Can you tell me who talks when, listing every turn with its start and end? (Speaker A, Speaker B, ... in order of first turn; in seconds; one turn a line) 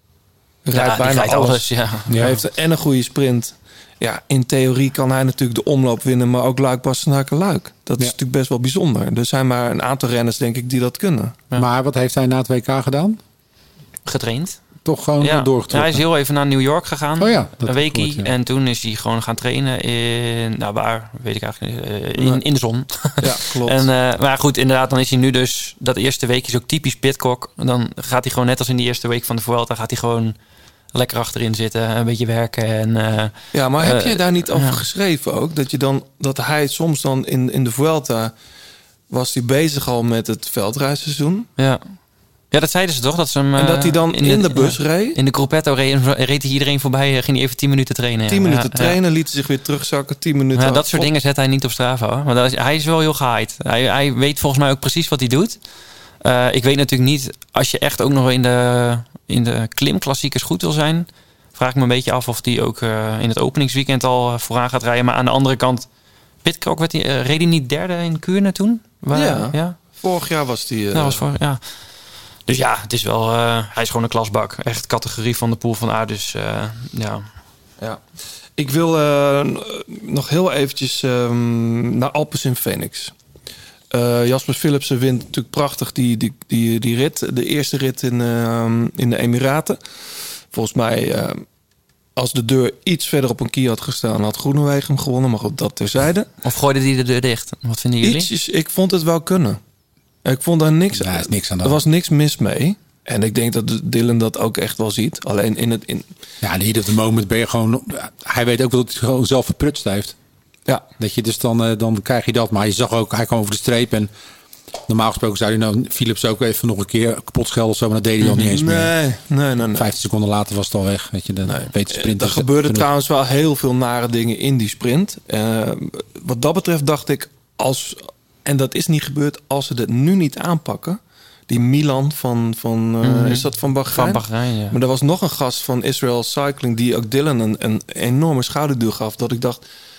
Speaker A: 0.7-11.4
Speaker B: 0.7-2.4
Speaker C: 2.1-2.4
Speaker C: 11.5-13.2
Speaker B: 14.1-14.6
Speaker C: 14.8-16.1
Speaker B: 15.2-30.4
Speaker C: 17.2-18.3
Speaker A: 23.2-23.9
Speaker B: 30.9-34.8
Speaker A: 33.5-38.3
Speaker A: 39.1-41.5
Speaker B: 41.6-41.8
Speaker B: 42.5-49.0
Speaker A: 43.6-45.2
Speaker A: 48.3-51.1
Speaker B: 50.6-55.6
Speaker B: 56.2-65.9
Speaker B: 66.4-69.8
Speaker A: 69.1-71.2
Speaker B: 70.9-71.6
Speaker B: 72.5-77.3
Speaker A: 78.6-83.1
Speaker A: 83.9-89.8
Speaker A: 90.5-91.4
Speaker A: 92.2-96.3
Speaker B: 96.4-98.3
Speaker A: 98.0-99.6
Speaker A: 100.2-106.1
Speaker C: 101.0-101.8
Speaker C: 106.4-110.2
Speaker C: 111.0-114.1
Speaker C: 114.9-119.0
Speaker A: 118.2-119.9
Speaker C: 119.7-122.9
Speaker A: 121.5-139.6
Speaker B: 133.0-134.8